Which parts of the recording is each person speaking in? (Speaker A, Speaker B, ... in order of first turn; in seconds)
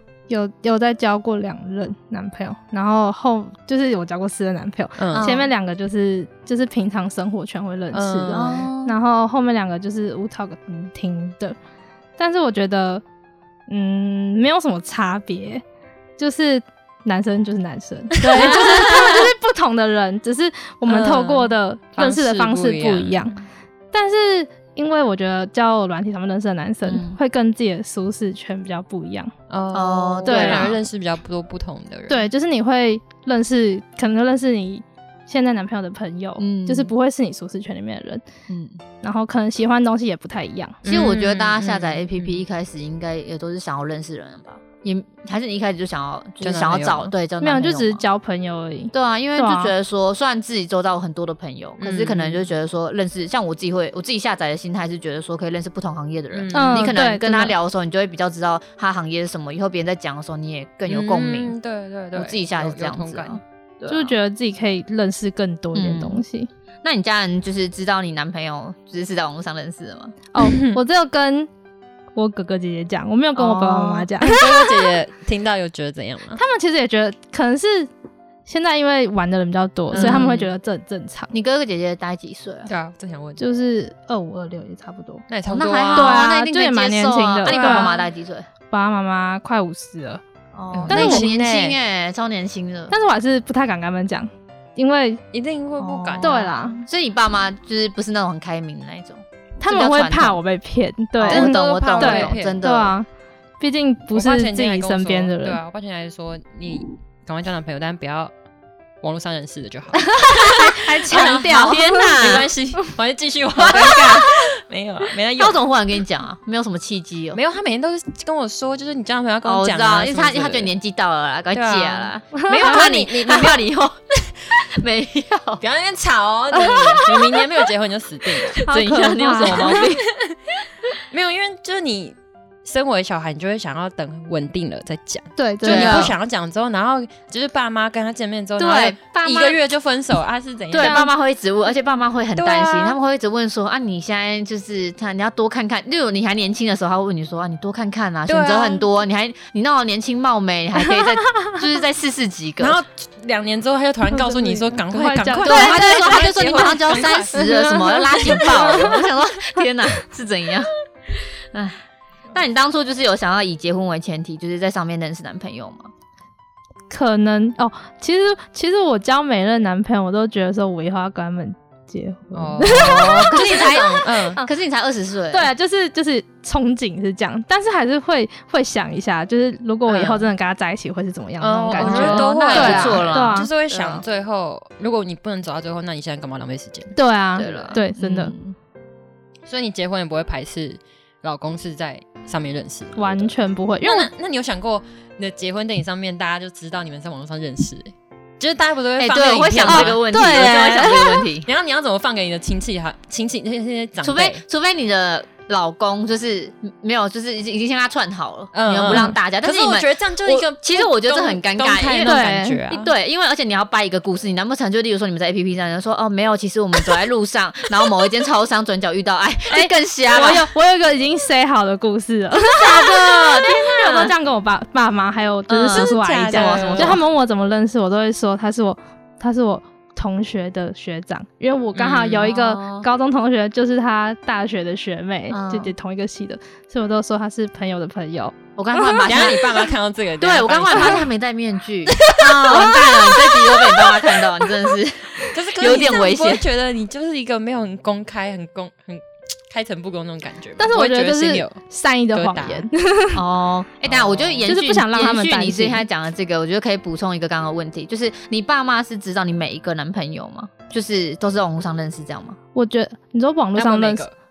Speaker A: 0.3-11.6, 12.2-13.0, 13.7-15.6, 16.2-23.4, 23.9-29.3, 30.2-30.8, 32.1-38.2, 39.0-40.8, 47.4-49.7, 56.5-57.5, 63.9-66.5, 70.3-71.5, 72.1-74.8, 76.3-77.9, 78.5-81.3, 83.4-85.2, 85.9-87.9, 88.7-90.2, 90.9-91.3, 92.9-95.2, 96.2-96.8, 99.6-103.1, 103.6-105.6, 110.0-112.2, 126.5-127.2, 128.6-129.8, 135.4-136.1, 140.8-141.1, 154.1-156.7, 157.3-159.0, 166.9-173.4, 175.3-183.5, 186.9-188.3, 193.0-194.1, 199.6-201.2, 212.0-212.6, 219.5-239.1, 250.6-253.2, 254.5-255.8, 262.5-264.1
Speaker B: 5.0-5.3, 7.9-8.6, 18.4-19.2, 20.9-23.2, 29.5-32.3, 40.8-42.4, 46.4-47.1, 51.8-52.5, 56.3-56.9, 60.9-63.4, 70.4-70.8, 74.2-76.4, 79.9-80.3, 82.7-83.4, 85.3-86.3, 87.4-88.0, 90.7-91.8, 95.3-96.4, 101.3-102.6, 104.1-108.3, 109.0-115.6, 117.3-120.7, 121.5-123.6, 125.6-128.6, 129.2-130.4, 131.1-141.1, 142.3-143.0, 148.3-148.9, 152.6-159.0, 172.3-174.4, 181.4-187.8, 189.4-200.0, 201.4-204.4, 208.5-212.9, 225.7-227.0, 231.8-232.3, 239.0-241.1, 241.9-244.2, 245.3-251.6, 252.1-252.7, 253.8-254.5, 263.6-264.1
Speaker C: 5.1-5.5, 8.3-8.9, 26.9-27.2, 29.7-30.8, 36.4-36.9, 38.5-38.8, 40.8-48.0, 48.9-61.5, 62.1-64.2, 65.7-66.2, 66.8-70.2, 73.3-74.1, 79.9-80.5, 81.3-82.7, 85.5-88.5, 90.5-92.9, 95.8-100.4, 101.2-102.9, 111.0-112.5, 113.5-114.3, 115.3-117.4, 119.4-125.6, 128.4-130.0, 135.6-136.2, 138.6-139.6, 140.7-152.8, 155.4-160.7, 161.5-161.8, 162.3-165.9, 172.7-175.5, 179.8-180.3, 181.7-184.0, 187.3-188.6, 199.0-201.5, 204.0-220.5, 222.6-224.1, 225.5-227.0, 232.2-232.9, 235.3-235.7, 238.6-246.4, 253.1-262.4